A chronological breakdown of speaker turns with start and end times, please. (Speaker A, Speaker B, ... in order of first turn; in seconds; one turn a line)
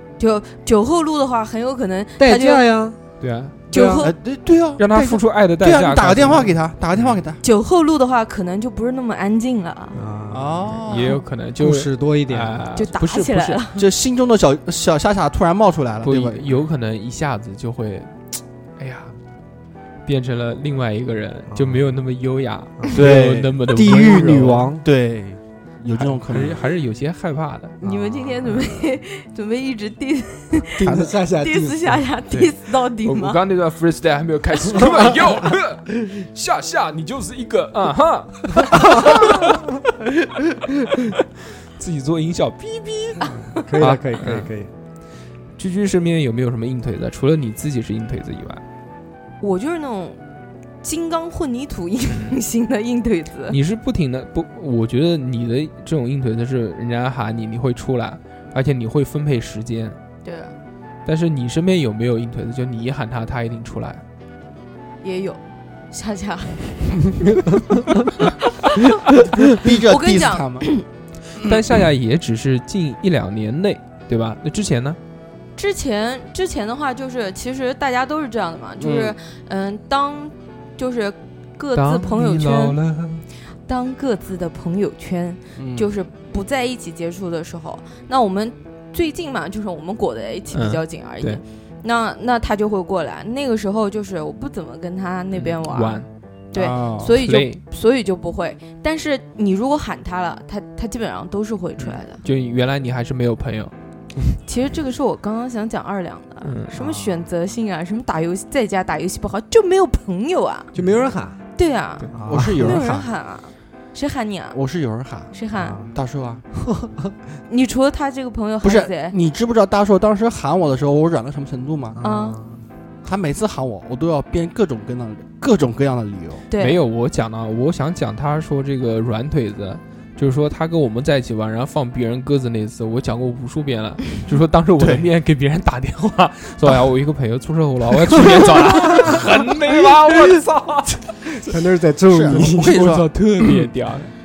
Speaker A: 0.2-2.7
Speaker B: 2.2-3.0
Speaker C: 3.2-3.6
Speaker A: 3.7-4.1
Speaker B: 3.7-4.0
Speaker D: 4.0-7.4
Speaker C: 4.8-7.2
Speaker A: 7.4-10.0
Speaker B: 9.9-10.7
Speaker D: 10.3-11.2
Speaker C: 10.8-13.6
Speaker B: 11.6-12.6
Speaker A: 12.7-13.8
Speaker D: 13.8-16.5
Speaker C: 16.0-18.1
Speaker C: 18.8-19.1
Speaker C: 20.1-24.7
Speaker B: 21.5-21.9
Speaker B: 22.8-24.8
Speaker D: 22.9-26.6
Speaker C: 26.0-27.8
Speaker B: 26.3-26.6
Speaker A: 27.8-30.8
Speaker B: 27.8-28.6
Speaker B: 30.7-32.0
Speaker D: 30.8-31.1
Speaker A: 31.4-33.4
Speaker C: 32.3-39.6
Speaker C: 41.8-44.5
Speaker B: 43.5-44.7
Speaker C: 45.6-48.6
Speaker A: 49.4-50.2
Speaker A: 50.8-53.6
Speaker C: 52.1-52.4
Speaker C: 53.5-60.0
Speaker A: 60.2-60.5
Speaker C: 61.0-64.0
Speaker A: 65.0-67.4
Speaker A: 68.6-68.9
Speaker D: 69.4-70.7
Speaker A: 69.6-70.8
Speaker C: 71.4-75.0
Speaker A: 75.5-82.8
Speaker D: 78.8-79.1
Speaker C: 81.7-83.2
Speaker A: 83.7-102.2
Speaker D: 85.6-85.9
Speaker C: 90.5-91.4
Speaker C: 95.3-96.1
Speaker D: 96.5-97.1
Speaker C: 97.1-97.6
Speaker C: 101.8-103.7
Speaker A: 104.5-110.7
Speaker C: 106.4-106.7
Speaker B: 106.8-107.2
Speaker B: 110.7-111.4
Speaker A: 111.5-114.6
Speaker B: 112.1-112.7
Speaker D: 112.2-113.1
Speaker D: 114.5-115.3
Speaker A: 115.3-115.8
Speaker B: 115.5-115.9
Speaker D: 115.9-116.4
Speaker B: 116.7-117.1
Speaker A: 117.5-119.2
Speaker D: 118.6-122.0
Speaker B: 121.9-122.6
Speaker A: 122.0-122.4
Speaker D: 123.0-126.4
Speaker A: 126.5-126.8
Speaker C: 126.6-141.0
Speaker D: 134.8-135.1
Speaker B: 141.4-142.7
Speaker D: 142.1-143.1
Speaker C: 142.3-144.1